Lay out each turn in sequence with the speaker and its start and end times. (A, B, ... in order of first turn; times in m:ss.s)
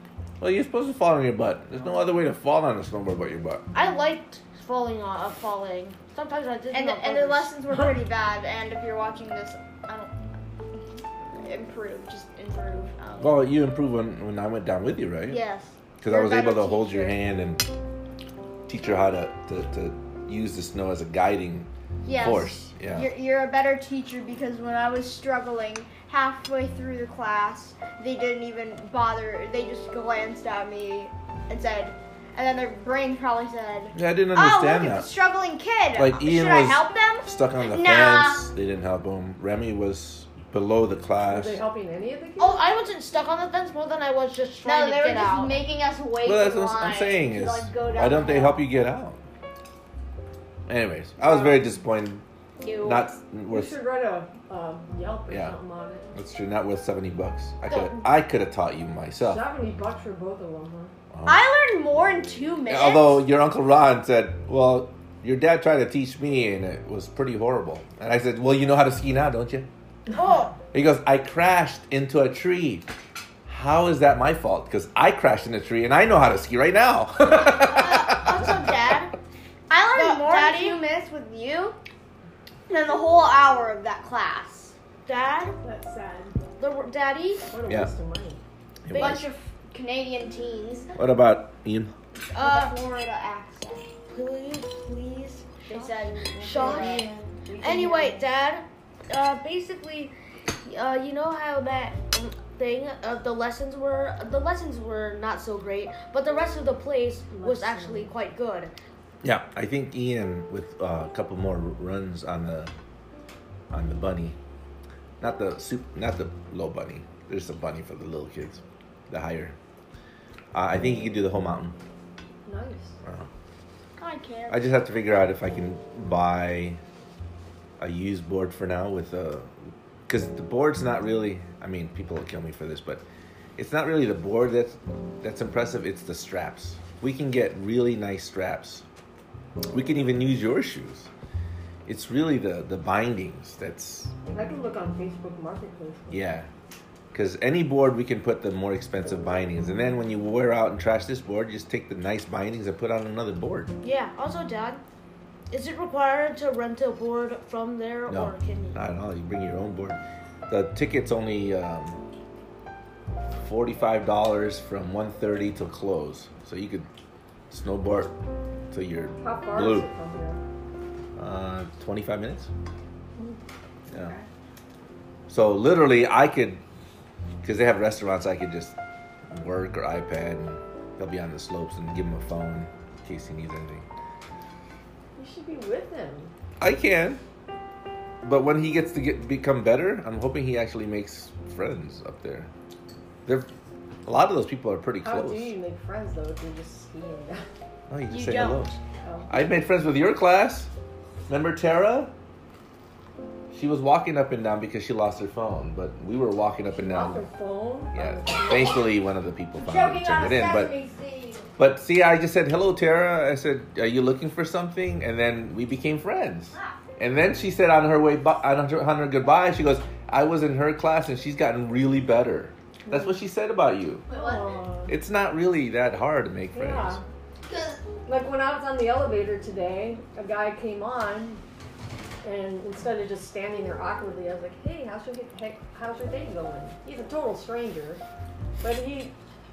0:00.4-0:03.6 A
0:03.7-0:07.5 B
0:06.7-0:10.2 C
0:11.3-0:13.5 C
0:13.2-0:15.4 A
0:15.3-0:17.2 C
0:16.0-0:17.7 A
0:18.7-0:23.1 A
0:22.0-0:38.5 C
0:33.9-0:35.1 A
0:35.9-0:41.6 A
0:41.3-0:42.6 D
0:42.4-0:45.6 B
0:44.6-0:48.7 C
0:46.2-0:49.2 A
0:50.7-0:52.2 A
0:51.2-0:51.6 C
0:52.6-0:53.1 C
0:52.8-0:53.8 A
0:53.5-0:56.1 D
0:55.3-0:55.6 A
0:56.1-0:59.4 A
0:59.2-1:00.9 D
1:01.1-1:01.4 A
1:01.2-1:03.2 C
1:02.7-1:09.7 A
1:10.2-1:10.6 B
1:10.7-1:12.9 A
1:13.5-1:18.7 A
1:17.4-1:19.1 B
1:19.7-1:21.8 C
1:19.9-1:20.8 B
1:22.7-1:24.7 C
1:25.0-1:25.6 B
1:25.6-1:26.4 D
1:26.6-1:27.5 B
1:27.5-1:28.4 D
1:27.6-1:27.9 A
1:28.8-1:29.2 A
1:28.9-1:29.2 B
1:28.9-1:30.9 C
1:30.9-1:31.9 A
1:32.3-1:33.8 C
1:32.3-1:32.8 B
1:34.1-1:48.7 B
1:35.7-1:37.0 C
1:36.3-1:38.2 D
1:47.3-1:48.2 D
1:49.2-1:52.7 A
1:53.7-1:54.4 A
1:55.2-1:59.6 A
2:00.5-2:01.8 A
2:02.4-2:03.0 D
2:04.0-2:04.7 B
2:04.5-2:06.8 A
2:07.8-2:09.5 A
2:10.1-2:13.0 A
2:13.6-2:18.8 A
2:19.7-2:21.1 A
2:21.9-2:24.1 A
2:24.3-2:26.2 D
2:26.1-2:26.5 A
2:27.1-2:33.7 A
2:33.8-2:34.8 B
2:35.5-2:38.8 B
2:38.1-2:42.0 A
2:43.4-2:46.9 A
2:47.5-2:48.1 A
2:48.7-2:49.9 A
2:49.2-2:50.4 D
2:51.2-2:52.5 A
2:53.9-2:54.2 A
2:54.0-2:54.2 C
2:55.3-2:56.6 A
2:57.4-2:58.7 A
2:59.3-3:03.8 A
3:05.2-3:06.3 D
3:06.6-3:07.2 A
3:08.2-3:12.5 A
3:14.0-3:15.5 A
3:15.0-3:17.4 D
3:17.9-3:18.7 A
3:18.1-3:18.8 C
3:19.0-3:19.3 D
3:19.3-3:20.7 A
3:21.3-3:22.1 A
3:23.5-3:27.2 A
3:26.7-3:28.8 D
3:27.9-3:30.7 A
3:29.6-3:31.5 C
3:31.6-3:44.0 A
3:36.5-3:36.8 C
3:42.8-3:43.2 D
3:44.1-3:44.6 C
3:44.1-3:45.0 D
3:44.9-3:47.0 A
3:46.5-3:47.0 D
3:47.4-3:47.8 C
3:48.0-3:51.4 D
3:52.2-3:58.0 D
3:58.6-3:59.1 D